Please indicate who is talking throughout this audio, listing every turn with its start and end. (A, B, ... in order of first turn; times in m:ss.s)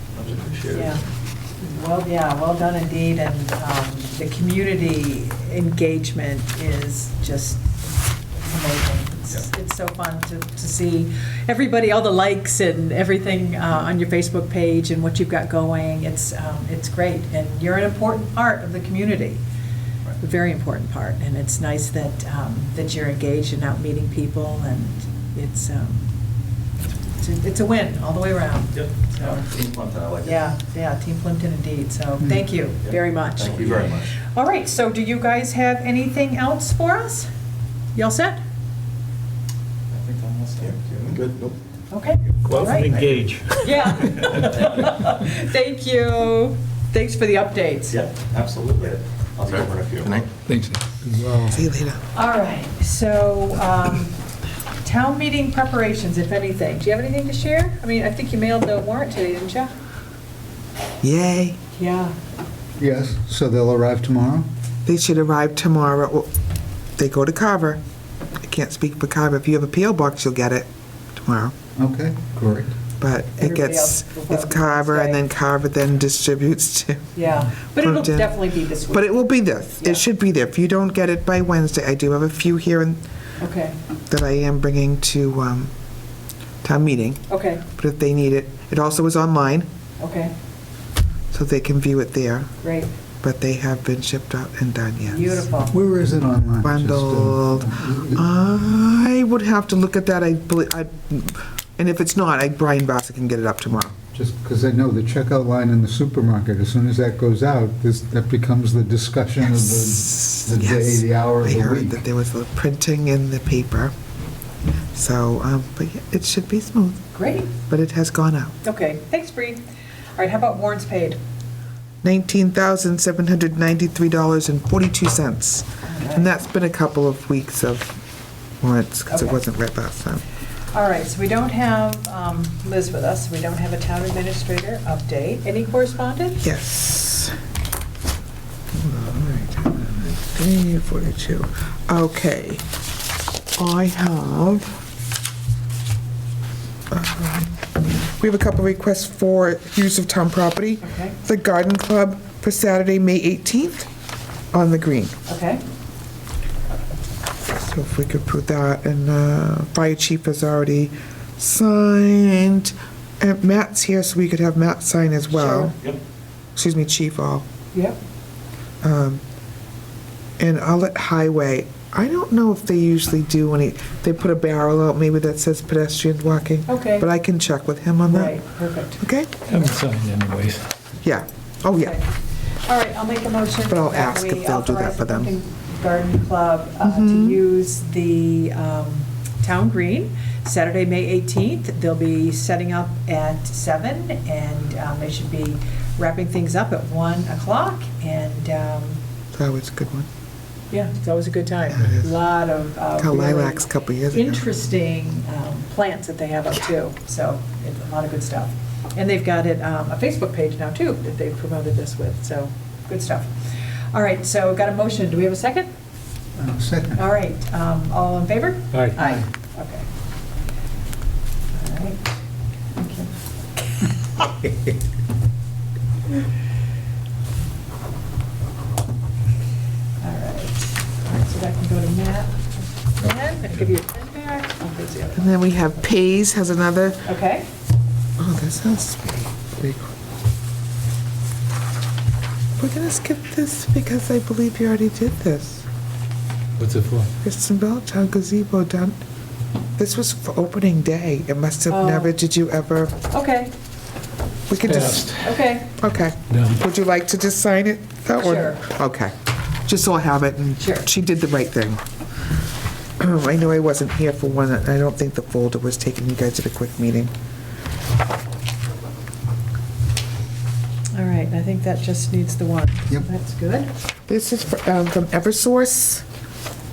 0:00.2-0:01.0 A
0:00.7-0:01.0 B
0:01.6-0:07.8 B
0:08.4-0:19.4 B
0:20.2-0:26.1 B
0:27.2-0:29.5 B
0:28.9-0:30.5 A
0:30.2-0:37.3 B
0:32.9-0:34.1 A
0:37.9-0:38.4 B
0:39.9-0:41.5 A
0:41.9-0:43.0 B
0:42.4-0:44.7 C
0:43.6-0:48.0 B
0:47.9-0:50.3 A
0:50.5-0:51.6 D
0:51.5-0:52.0 E
0:52.1-0:54.2 B
0:54.8-0:59.7 B
1:01.0-1:01.6 E
1:01.7-1:02.2 B
1:02.8-1:04.5 D
1:04.8-1:06.3 E
1:07.0-1:07.8 E
1:08.4-1:10.7 E
1:11.2-1:11.5 E
1:11.8-1:12.8 D
1:13.0-1:17.1 E
1:13.4-1:15.2 B
1:17.1-1:20.0 B
1:17.7-1:23.0 E
1:23.4-1:23.8 B
1:24.1-1:25.7 E
1:26.6-1:29.7 E
1:27.3-1:27.6 B
1:30.0-1:30.3 B
1:31.3-1:32.5 E
1:32.6-1:32.9 B
1:33.2-1:35.5 E
1:35.0-1:35.7 B
1:35.7-1:38.2 D
1:36.6-1:44.0 E
1:44.1-1:52.0 D
1:49.5-1:53.9 E
1:54.9-1:57.0 E
1:57.1-1:57.5 B
1:57.7-1:58.6 E
1:58.6-1:59.6 B
2:00.2-2:01.2 B
2:02.0-2:08.0 E
2:05.8-2:06.3 B
2:08.6-2:10.2 E
2:09.1-2:09.4 B
2:10.7-2:16.4 B
2:16.4-2:17.3 E
2:18.7-2:22.6 E
2:23.6-2:24.8 E
2:26.9-2:33.9 E
2:30.8-2:31.1 B
2:34.5-2:35.2 E
2:35.3-2:35.6 B
2:37.5-2:45.7 E
2:45.4-2:45.7 B
2:46.6-2:47.4 E
2:48.8-2:49.2 E
2:50.4-2:58.4 E
2:56.7-2:57.1 B
2:58.1-2:59.0 B
2:59.0-2:59.3 E
2:59.5-3:00.7 C
3:01.0-3:02.0 E
3:01.8-3:02.0 B
3:02.7-3:19.0 B
3:03.7-3:05.3 E
3:06.8-3:07.4 E
3:19.3-3:20.1 E
3:20.7-3:33.3 B
3:21.7-3:22.1 E
3:23.0-3:24.4 E
3:33.9-3:35.7 B
3:36.4-3:37.0 D
3:37.0-3:39.9 B
3:39.0-3:39.2 D
3:41.5-3:42.1 B
3:42.7-3:43.1 B
3:50.0-3:55.5 B
3:55.2-3:57.1 E
3:57.0-3:57.5 B
3:58.2-3:59.9 E
4:02.6-4:05.6 E
4:06.6-4:07.1 C
4:07.2-4:09.0 E
4:09.8-4:13.0 E
4:11.7-4:12.1 B
4:13.1-4:13.5 B
4:14.5-4:15.1 E
4:14.6-4:15.4 C
4:15.2-4:15.7 B
4:15.8-4:21.8 E
4:16.3-4:16.6 C
4:18.2-4:18.6 B
4:20.6-4:20.9 B
4:23.0-4:27.1 E
4:30.9-4:33.7 B
4:34.1-4:36.0 E